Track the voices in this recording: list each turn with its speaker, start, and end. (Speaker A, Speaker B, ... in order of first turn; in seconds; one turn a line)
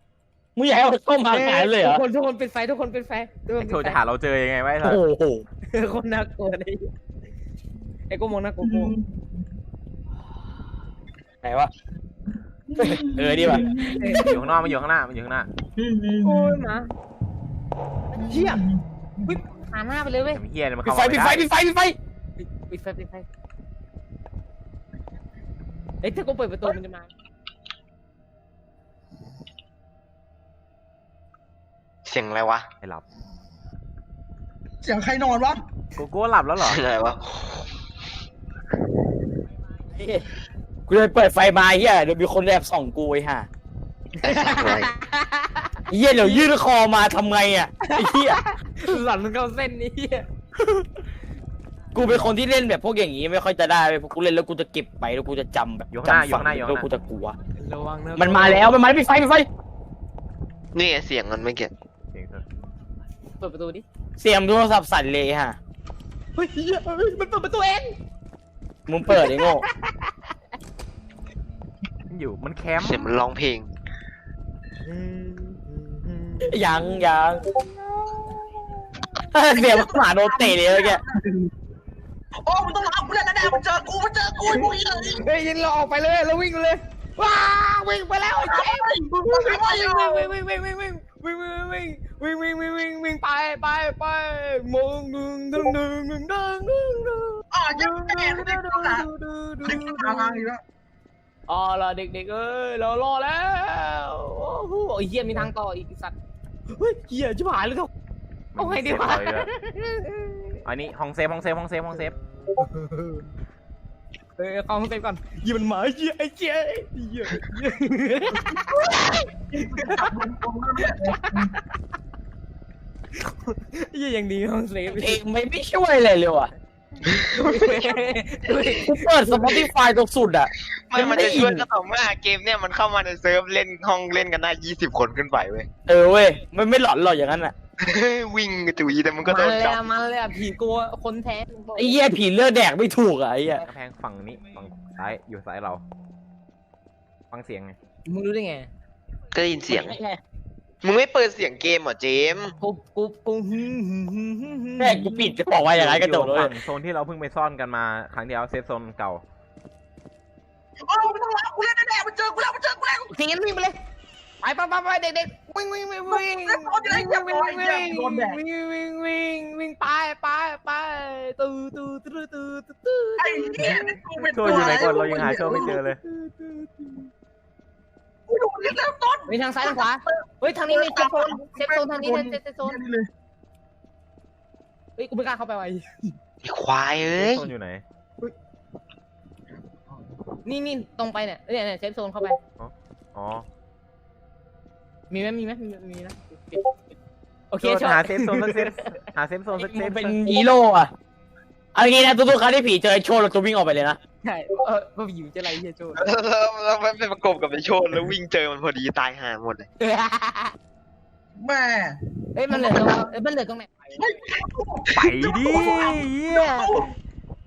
Speaker A: 0.6-2.0
Speaker B: 1.3-4.0
Speaker C: 3.6-5.0
Speaker A: 4.8-5.5
Speaker B: 5.7-6.9
Speaker B: 8.1-8.9
Speaker D: 8.6-9.5
Speaker A: 11.4-11.7
Speaker D: 12.7-14.4
Speaker A: 12.8-13.7
Speaker B: 13.7-14.4
Speaker C: 14.1-15.5
Speaker D: 15.8-16.7
Speaker B: 16.2-16.9
Speaker B: 18.1-18.7
Speaker D: 18.1-19.4
Speaker B: 19.2-20.4
Speaker C: 20.3-21.4
Speaker A: 20.9-22.0
Speaker B: 22.4-23.3
Speaker B: 26.0-27.1
Speaker E: 32.0-32.7
Speaker D: 34.8-35.7
Speaker C: 36.0-36.8
Speaker E: 36.6-37.7
Speaker A: 40.0-40.3
Speaker A: 40.9-43.5
Speaker E: 44.2-44.9
Speaker B: 44.2-46.5
Speaker A: 45.9-48.4
Speaker B: 47.8-50.3
Speaker A: 51.9-57.4
Speaker C: 55.9-56.9
Speaker B: 57.6-58.8
Speaker A: 58.2-59.5
Speaker E: 60.7-61.7
Speaker C: 62.1-62.4
Speaker B: 63.4-63.9
Speaker A: 64.2-65.6
Speaker B: 66.4-68.0
Speaker A: 68.9-69.6
Speaker B: 69.1-70.1
Speaker C: 72.1-73.1
Speaker E: 72.8-73.7
Speaker B: 74.8-79.2
Speaker A: 76.4-77.4
Speaker A: 79.3-81.0
Speaker D: 79.5-81.2
Speaker D: 82.4-85.3
Speaker B: 84.5-100.5
Speaker D: 88.4-90.3
Speaker D: 97.5-99.1
Speaker D: 99.6-100.6
Speaker B: 101.5-106.2
Speaker B: 106.7-107.9
Speaker C: 108.5-109.5
Speaker B: 108.6-110.6
Speaker C: 110.7-112.2
Speaker B: 112.5-113.3
Speaker B: 114.4-120.1
Speaker D: 119.3-121.6
Speaker B: 120.9-121.6
Speaker B: 123.2-125.2
Speaker A: 124.9-126.5
Speaker B: 127.0-129.6
Speaker A: 128.6-131.7
Speaker E: 130.9-135.7
Speaker A: 135.9-137.5
Speaker E: 137.8-139.9
Speaker B: 139.2-142.0
Speaker A: 141.8-143.7
Speaker C: 143.6-145.8
Speaker C: 147.3-147.8
Speaker B: 148.1-148.7
Speaker E: 149.3-150.0
Speaker A: 149.7-150.2
Speaker E: 150.8-152.6
Speaker B: 152.6-155.3
Speaker A: 154.8-156.5
Speaker C: 155.6-159.2
Speaker D: 160.9-163.1
Speaker B: 163.1-163.8
Speaker B: 164.4-177.1
Speaker D: 166.1-168.4
Speaker D: 173.2-175.8
Speaker C: 174.3-176.0
Speaker D: 178.3-183.1
Speaker B: 179.3-182.8
Speaker B: 185.0-186.1
Speaker E: 186.4-187.5
Speaker C: 187.0-187.8
Speaker D: 189.5-190.2
Speaker B: 190.4-192.4
Speaker C: 192.6-193.5
Speaker B: 195.1-196.7
Speaker B: 197.5-198.9
Speaker C: 197.6-200.2
Speaker A: 199.6-200.9
Speaker A: 201.8-204.0
Speaker B: 204.2-206.1
Speaker E: 205.9-209.7
Speaker B: 209.8-210.6
Speaker D: 211.4-213.1
Speaker B: 212.3-214.2
Speaker D: 214.0-217.0
Speaker C: 214.9-216.9